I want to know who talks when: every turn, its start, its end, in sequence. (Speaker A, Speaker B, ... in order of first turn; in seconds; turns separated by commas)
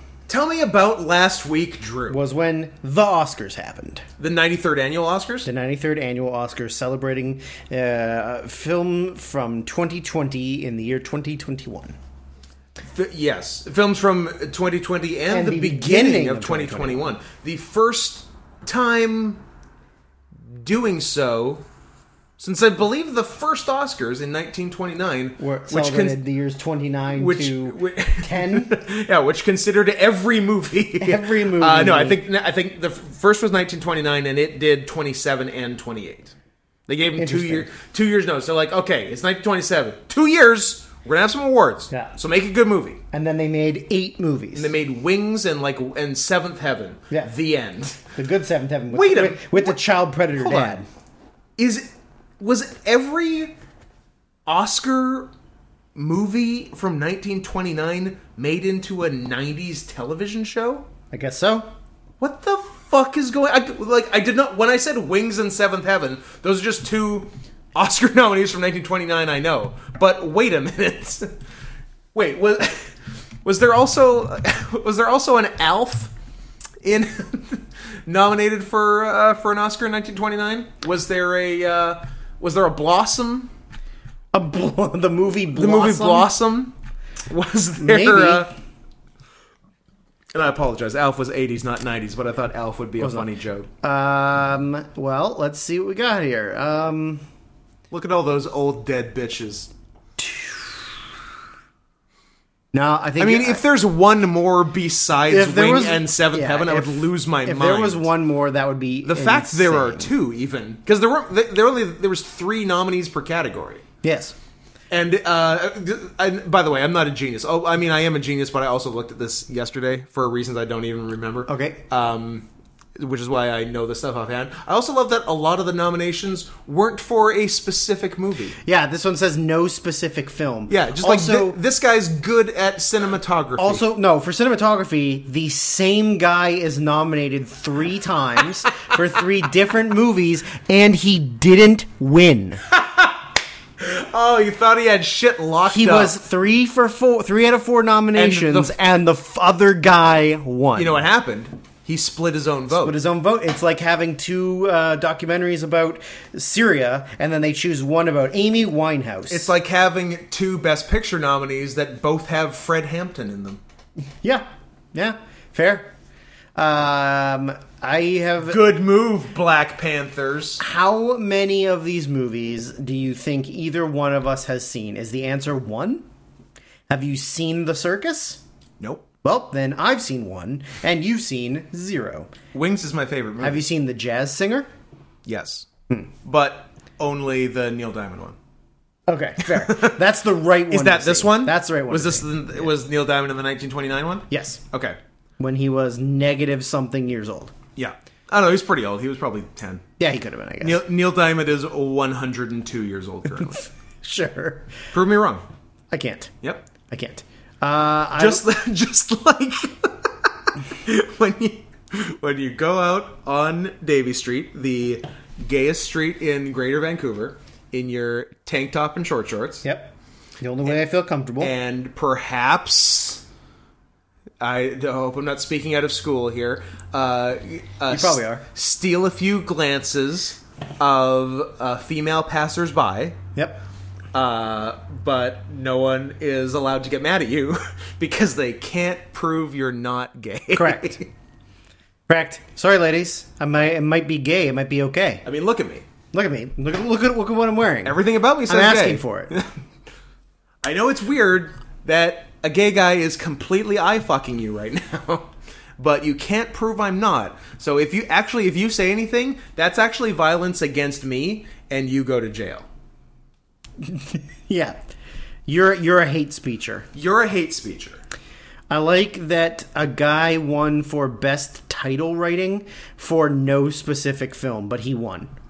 Speaker A: 0.3-2.2, Speaker B: 2.1-4.0, Speaker A: 4.2-5.5, Speaker B: 5.5-11.9, Speaker A: 12.9-19.4, Speaker B: 15.3-17.1, Speaker A: 20.5-21.6, Speaker A: 22.4-26.2, Speaker B: 25.4-28.8, Speaker A: 27.1-36.3, Speaker B: 31.0-32.2, Speaker A: 36.9-43.0, Speaker B: 37.2-37.7, Speaker B: 43.1-44.7, Speaker A: 44.5-48.1, Speaker B: 48.1-50.9, Speaker A: 48.9-49.7, Speaker A: 50.4-50.8, Speaker A: 51.6-53.5, Speaker A: 54.5-55.3, Speaker A: 55.9-60.9, Speaker B: 61.1-61.7, Speaker A: 62.2-71.3, Speaker A: 72.1-76.1, Speaker A: 76.8-83.5, Speaker B: 84.3-86.3, Speaker A: 85.5-86.8, Speaker A: 87.3-88.5, Speaker B: 87.8-88.5, Speaker A: 90.3-93.7, Speaker B: 93.0-93.3, Speaker B: 93.8-97.2, Speaker A: 97.9-99.7, Speaker B: 100.2-101.0, Speaker B: 102.7-103.6, Speaker A: 103.2-108.1, Speaker B: 105.3-110.1, Speaker A: 109.0-113.8, Speaker B: 114.0-114.3, Speaker A: 114.9-128.6, Speaker B: 121.5-121.8, Speaker B: 128.6-131.6, Speaker A: 130.7-133.8, Speaker B: 133.6-142.6, Speaker A: 142.7-143.2, Speaker A: 143.8-146.1, Speaker B: 145.7-151.0, Speaker A: 148.1-148.8, Speaker A: 150.7-153.0, Speaker B: 152.7-159.5, Speaker A: 159.3-163.6, Speaker B: 164.2-165.9, Speaker B: 166.6-168.6, Speaker A: 168.4-170.6, Speaker B: 170.6-176.0, Speaker B: 176.9-178.4, Speaker A: 178.8-179.1, Speaker B: 179.2-182.3, Speaker A: 182.5-183.6, Speaker B: 183.4-184.7, Speaker A: 185.2-185.7, Speaker A: 186.2-188.4, Speaker B: 189.1-192.7, Speaker A: 189.4-190.0, Speaker A: 190.7-195.0, Speaker B: 194.3-194.6, Speaker B: 195.4-197.5, Speaker A: 197.8-199.8, Speaker B: 200.0-200.8, Speaker A: 200.6-203.7, Speaker B: 204.0-204.7, Speaker A: 204.9-205.4, Speaker B: 205.9-206.3, Speaker A: 206.4-206.7, Speaker B: 206.9-208.4, Speaker A: 208.1-210.1, Speaker A: 210.6-219.6, Speaker B: 219.6-221.5, Speaker A: 221.4-223.2, Speaker A: 224.4-233.2, Speaker B: 227.9-228.4, Speaker B: 233.3-233.6, Speaker A: 234.1-241.1, Speaker B: 240.5-241.0, Speaker B: 242.1-245.2, Speaker A: 245.2-245.8, Speaker B: 246.1-249.3, Speaker A: 247.8-249.5, Speaker A: 250.6-262.7, Speaker B: 263.8-264.8, Speaker B: 265.5-266.9, Speaker A: 266.9-268.0, Speaker B: 268.7-275.3